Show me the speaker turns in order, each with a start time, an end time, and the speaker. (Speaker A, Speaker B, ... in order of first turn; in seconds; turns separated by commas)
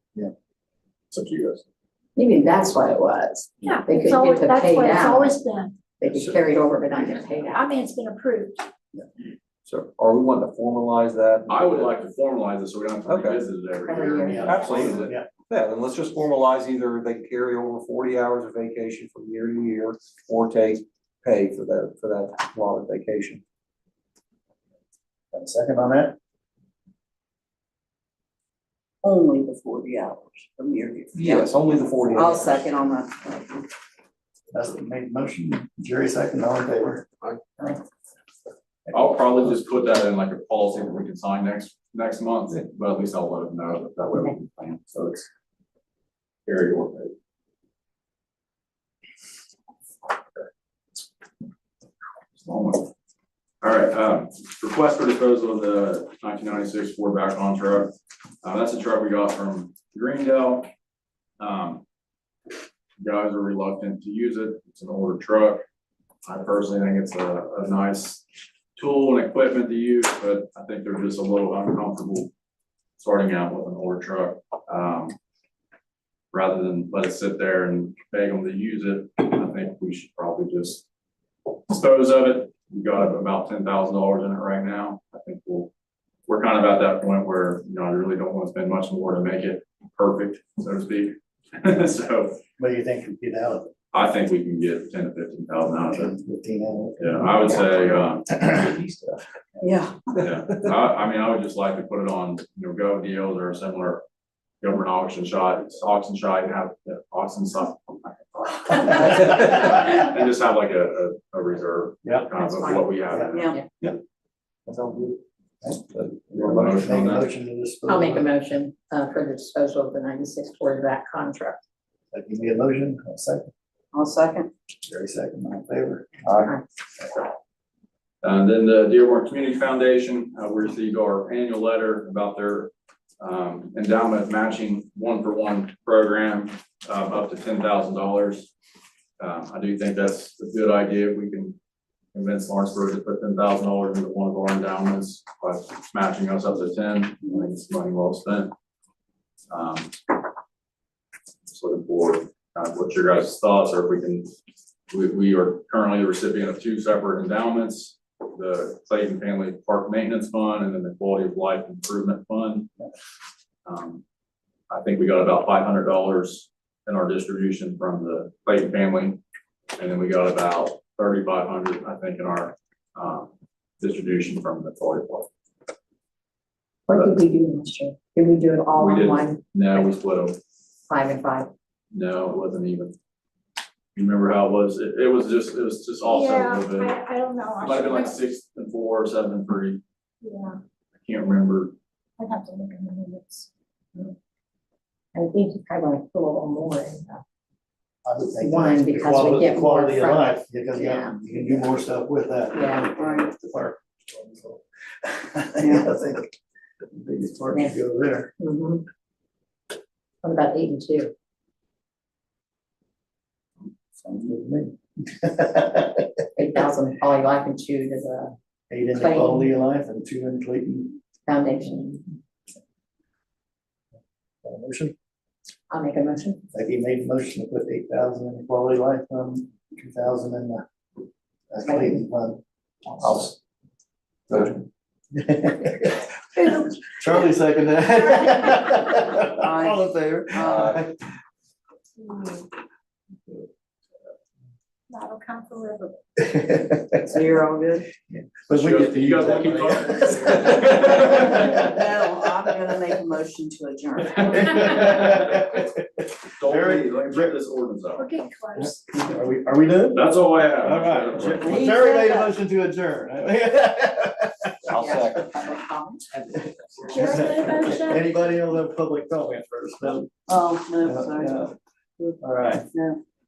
Speaker A: 1.1-1.6, Speaker B: 2.2-5.4, Speaker C: 3.6-5.8, Speaker B: 6.0-7.6, Speaker C: 7.5-8.7, Speaker D: 9.6-11.9, Speaker A: 11.5-15.1, Speaker D: 13.1-13.4, Speaker B: 13.8-14.7, Speaker E: 14.2-15.3, Speaker D: 14.4-23.4, Speaker E: 25.3-26.2, Speaker F: 29.0-31.6, Speaker D: 31.1-32.7, Speaker F: 32.1-33.7, Speaker E: 34.5-37.1, Speaker A: 38.9-45.3, Speaker A: 46.5-47.1, Speaker A: 52.4-52.9, Speaker A: 53.6-60.7, Speaker A: 61.4-61.8, Speaker A: 63.0-65.6, Speaker A: 66.2-68.2, Speaker A: 68.8-72.3, Speaker A: 73.0-75.1, Speaker A: 76.3-80.8, Speaker A: 81.7-85.7, Speaker A: 86.3-92.4, Speaker E: 92.6-93.7, Speaker A: 93.9-96.1, Speaker E: 95.9-97.7, Speaker A: 97.0-98.3, Speaker E: 98.3-98.7, Speaker F: 99.6-100.0, Speaker A: 100.2-104.0, Speaker A: 104.6-113.4, Speaker B: 112.3-113.7, Speaker F: 113.3-113.6, Speaker D: 114.7-115.2, Speaker E: 115.6-118.3, Speaker D: 115.9-116.8, Speaker A: 116.5-117.3, Speaker B: 117.9-121.6, Speaker E: 122.1-123.5, Speaker F: 123.9-124.5, Speaker E: 124.8-126.5, Speaker A: 128.2-138.5, Speaker A: 139.2-141.6, Speaker A: 142.1-148.5, Speaker A: 149.5-149.9, Speaker A: 151.5-154.3, Speaker A: 154.9-162.7, Speaker A: 163.7-164.0, Speaker A: 164.7-169.2, Speaker A: 169.8-173.3, Speaker A: 173.8-175.3, Speaker B: 176.9-179.4, Speaker A: 178.8-180.4, Speaker B: 180.9-181.5, Speaker A: 181.9-182.9, Speaker A: 183.9-186.9, Speaker C: 186.0-188.2, Speaker A: 187.6-189.8, Speaker C: 190.2-190.6, Speaker A: 191.0-191.7, Speaker C: 192.2-193.5, Speaker B: 195.1-197.2, Speaker E: 198.0-206.3, Speaker B: 198.4-201.6, Speaker B: 202.5-202.9, Speaker F: 203.0-203.3, Speaker F: 205.6-205.9, Speaker E: 206.9-208.3, Speaker B: 208.4-208.8, Speaker B: 210.2-211.1, Speaker E: 214.0-216.0, Speaker B: 216.3-218.3, Speaker E: 218.7-221.0, Speaker B: 218.9-219.5, Speaker B: 221.2-222.0, Speaker E: 224.4-224.9, Speaker B: 225.7-226.4, Speaker E: 226.5-230.6, Speaker E: 231.5-233.3, Speaker B: 231.7-231.9, Speaker E: 234.3-236.1, Speaker E: 237.0-240.9, Speaker F: 238.9-240.8, Speaker C: 242.0-242.4, Speaker C: 244.9-246.0, Speaker E: 246.2-247.1, Speaker F: 247.0-247.9, Speaker E: 248.1-251.7, Speaker A: 248.5-251.6, Speaker F: 251.0-255.0, Speaker E: 254.3-257.3, Speaker A: 254.6-255.5, Speaker A: 256.4-258.1, Speaker C: 258.0-258.8, Speaker E: 258.6-264.7, Speaker A: 259.9-261.6, Speaker F: 261.4-262.2, Speaker D: 264.7-265.3, Speaker B: 264.7-266.1, Speaker E: 266.2-270.1, Speaker C: 266.9-268.1, Speaker F: 270.3-272.2, Speaker E: 270.8-271.5, Speaker E: 272.2-272.7, Speaker F: 272.7-273.0